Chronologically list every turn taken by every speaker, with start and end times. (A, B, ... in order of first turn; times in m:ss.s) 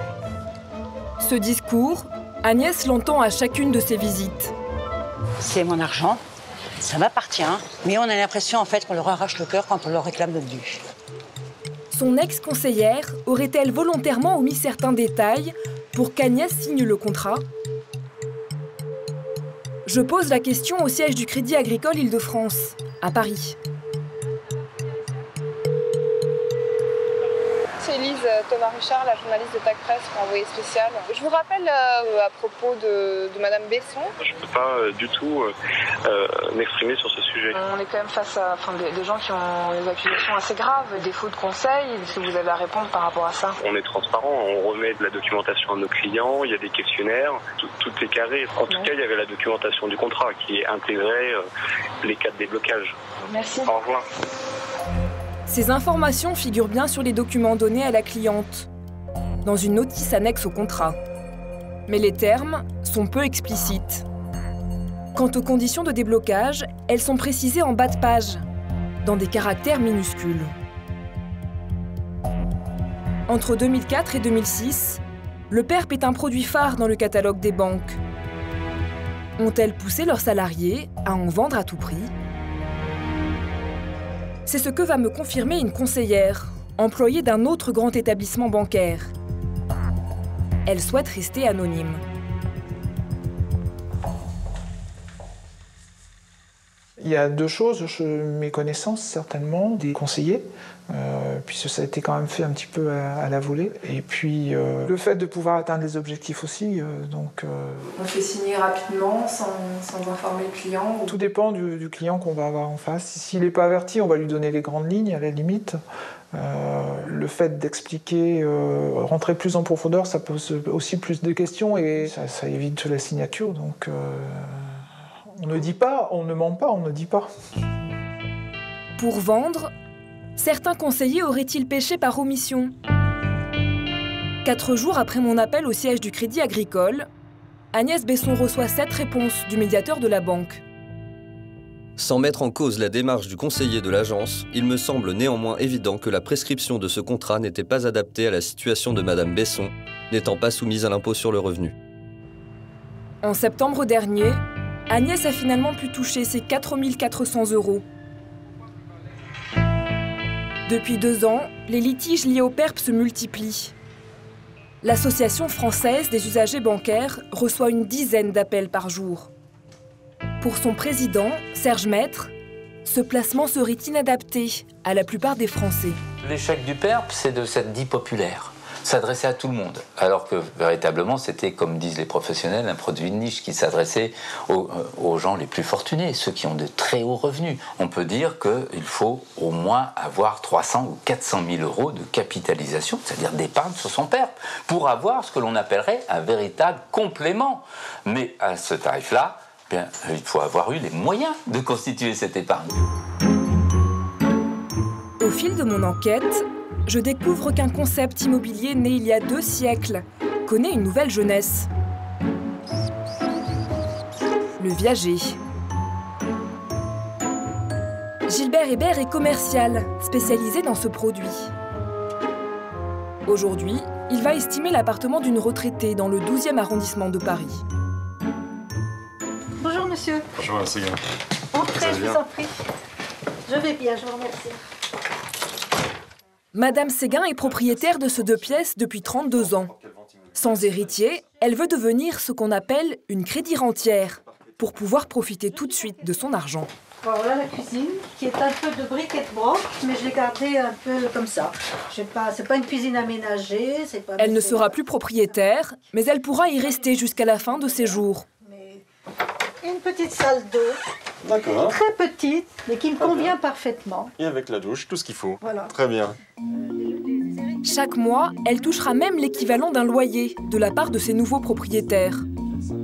0:01.2-0:04.5 A
0:05.4-0:06.2 B
0:06.8-0:10.8 B
0:11.9-0:17.4 A
0:19.9-0:23.6 A
0:27.8-0:34.1 C
0:34.2-0:35.5 D
0:36.1-0:37.6 D
0:37.5-0:43.6 C
0:43.6-0:51.4 D
0:52.0-0:52.9 D
0:53.2-0:53.7 C
0:53.6-0:54.0 D
0:55.5-0:58.7 A
0:59.4-1:01.0 A
1:01.9-1:04.0 A
1:05.2-1:08.4 A
1:09.0-1:10.5 A
1:13.3-1:18.0 A
1:19.4-1:22.1 A
1:24.4-1:29.1 A
1:30.7-1:32.0 A
1:37.0-1:47.9 E
1:47.9-1:51.1 C
1:51.1-1:55.8 E
1:56.3-2:04.6 E
2:05.4-2:07.3 E
2:09.0-2:09.7 A
2:10.4-2:12.7 A
2:14.4-2:17.1 A
2:17.7-2:20.6 A
2:22.0-2:31.8 F
2:33.2-2:37.8 A
2:40.7-2:43.7 A
2:44.8-2:49.3 A
2:50.4-2:52.3 A
2:52.8-2:56.0 A
2:56.2-3:22.8 G
3:25.2-3:31.7 A
3:34.6-3:35.4 A
3:38.3-3:41.5 A
3:43.3-3:47.6 A
3:49.6-3:50.3 H
3:50.4-3:51.0 I
3:51.5-3:52.5 H
3:51.7-3:52.2 I
3:53.5-3:54.6 H
3:56.5-3:59.7 A
3:57.3-4:01.1 I
4:00.3-4:06.7 A
4:04.2-4:04.7 I
4:07.0-4:14.8 H
4:14.2-4:18.2 A
4:18.4-4:18.8 H
4:19.6-4:20.8 H
4:21.2-4:21.8 I
4:21.3-4:24.1 H
4:23.0-4:23.3 I
4:24.2-4:26.2 I
4:25.4-4:25.7 H
4:26.8-4:27.6 H
4:27.6-4:32.2 A